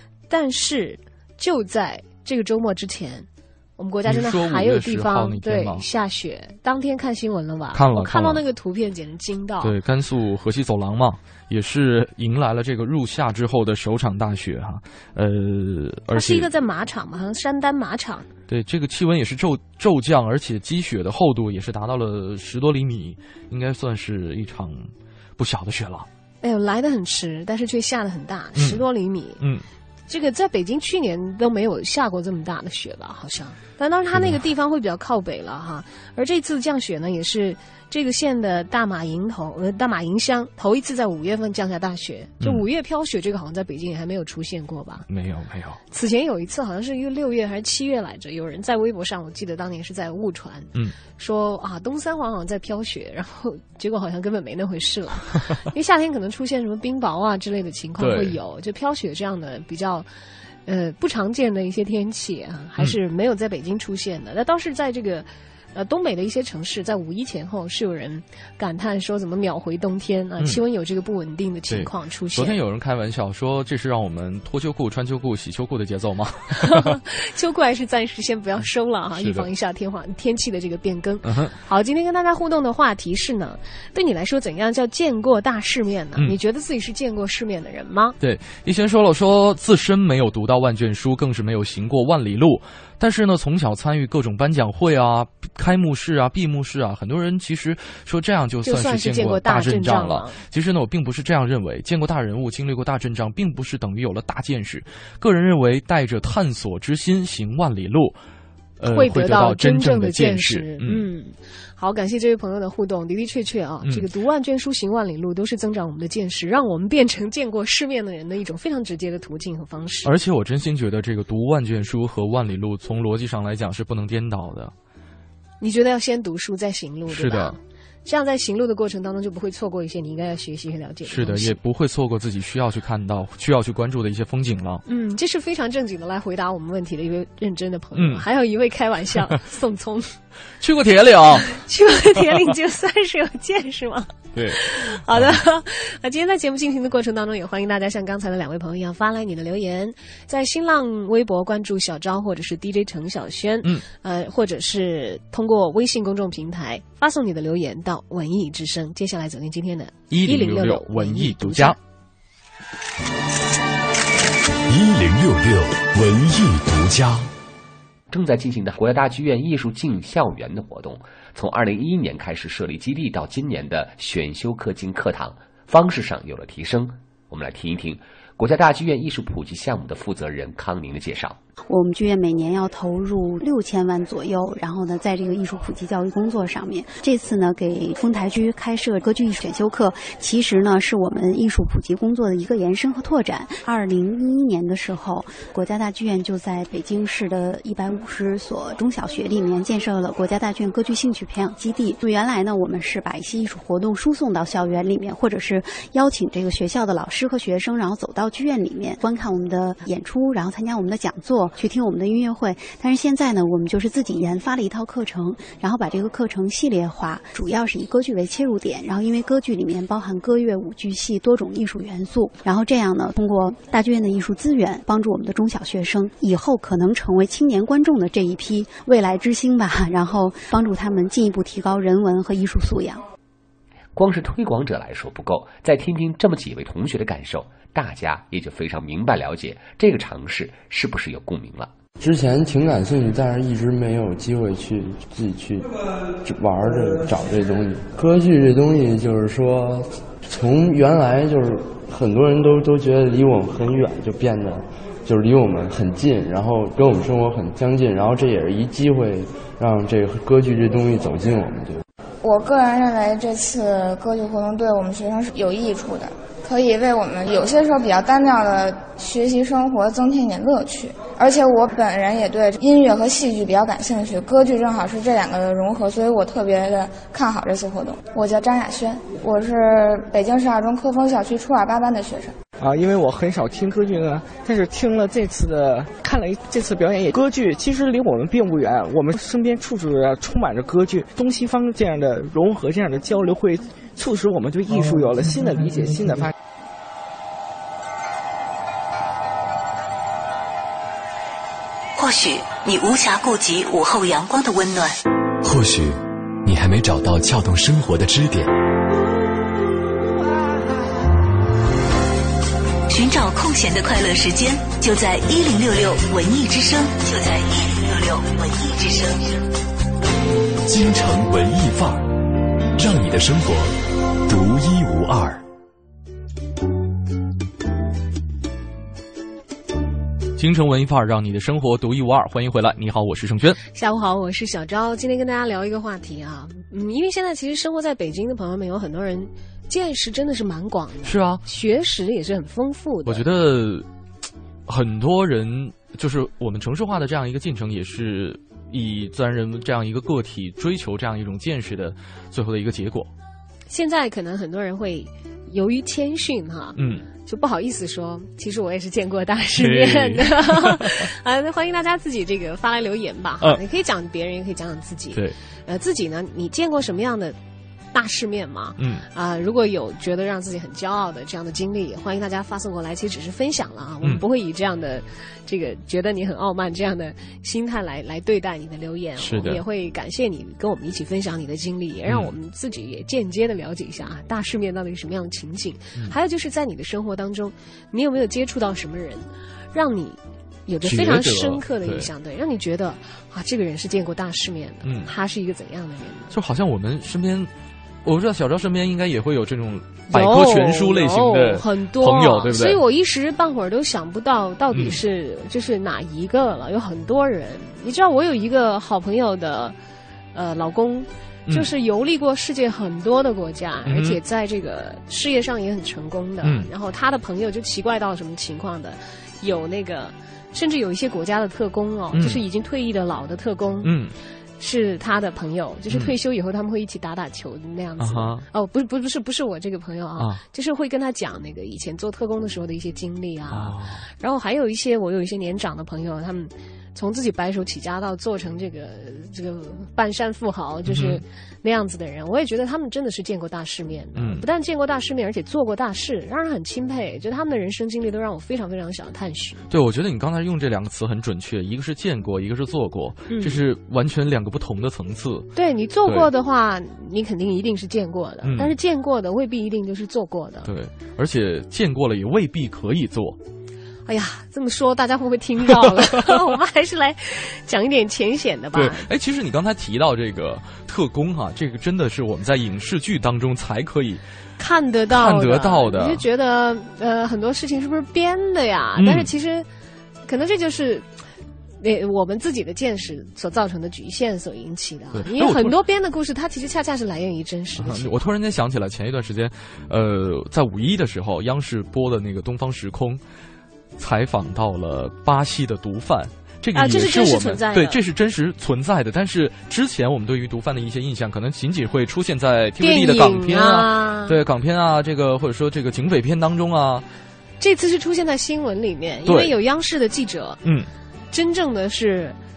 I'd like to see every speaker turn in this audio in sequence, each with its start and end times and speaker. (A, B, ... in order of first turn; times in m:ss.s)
0:00.3-0:09.8 A
0:04.1-0:05.9 B
0:07.7-0:08.4 B
0:09.6-0:16.5 B
0:16.1-0:18.3 A
0:18.5-0:26.1 B
0:26.4-0:29.4 A
0:28.6-0:28.8 B
0:29.4-0:29.6 B
0:30.1-0:45.1 A
0:34.1-0:34.4 B
0:45.1-0:45.8 B
0:45.9-1:00.1 A
0:58.0-0:58.4 B
1:00.7-1:12.6 A
1:11.7-1:17.0 B
1:16.6-1:28.2 A
1:19.2-1:19.5 B
1:21.2-1:21.6 B
1:28.2-1:48.2 B
1:38.6-1:40.4 A
1:48.8-1:51.1 B
1:48.9-2:00.1 A
2:00.0-2:04.7 B
2:05.6-2:11.6 A
2:07.1-2:07.6 B
2:11.1-2:14.8 B
2:14.9-2:20.2 A
2:18.0-2:18.2 B
2:20.6-2:21.6 B
2:21.5-2:41.8 A
2:24.3-2:25.4 B
2:40.1-2:41.8 B
2:44.7-2:47.3 C
2:48.1-3:01.4 D
3:01.7-3:53.0 E
3:54.0-4:01.7 D
4:02.0-4:05.7 F
4:06.2-4:21.8 F
4:22.2-4:42.3 G
4:42.6-4:56.3 H
5:02.0-5:05.0 I
5:05.4-5:08.5 C
5:12.9-5:19.4 I
5:20.7-5:22.1 C
5:22.8-5:23.8 C
5:24.3-5:25.4 C
5:30.4-5:33.6 B
5:33.7-5:43.2 A
5:41.0-5:41.4 B
5:43.1-5:43.9 B
5:44.7-5:53.1 B
5:53.7-6:07.4 A
5:56.8-5:57.1 B
5:59.6-6:01.1 B
6:07.9-6:36.4 A
6:08.8-6:09.0 B
6:19.2-6:19.6 B
6:22.1-6:22.3 B
6:30.8-6:32.1 B
6:34.8-6:35.1 B
6:36.3-6:37.5 B
6:38.0-6:42.8 B
6:40.1-6:49.8 A
6:44.7-6:45.0 B
6:50.3-7:03.9 A
6:53.9-6:54.2 B
6:56.4-6:56.7 B
7:02.1-7:02.4 B
7:03.8-7:04.2 B
7:04.6-7:29.6 A
7:08.0-7:08.5 B
7:10.2-7:10.4 B
7:13.5-7:14.0 B
7:20.9-7:21.2 B
7:24.2-7:24.4 B
7:29.7-7:35.5 B
7:33.3-7:33.6 A
7:35.6-7:40.7 A
7:38.4-7:38.7 B
7:40.6-7:43.4 B
7:44.1-7:49.1 A
7:48.7-7:54.2 B
7:54.6-7:59.7 A
7:55.1-7:56.2 B
7:59.0-7:59.3 B
8:00.3-8:01.1 A
8:01.8-8:08.1 A
8:05.1-8:05.8 B
8:07.8-8:13.2 B
8:14.0-8:27.1 B
8:16.7-8:18.0 A
8:22.8-8:24.4 A
8:27.6-8:30.6 A
8:29.3-8:29.5 B
8:30.6-8:30.9 B
8:31.3-8:32.4 A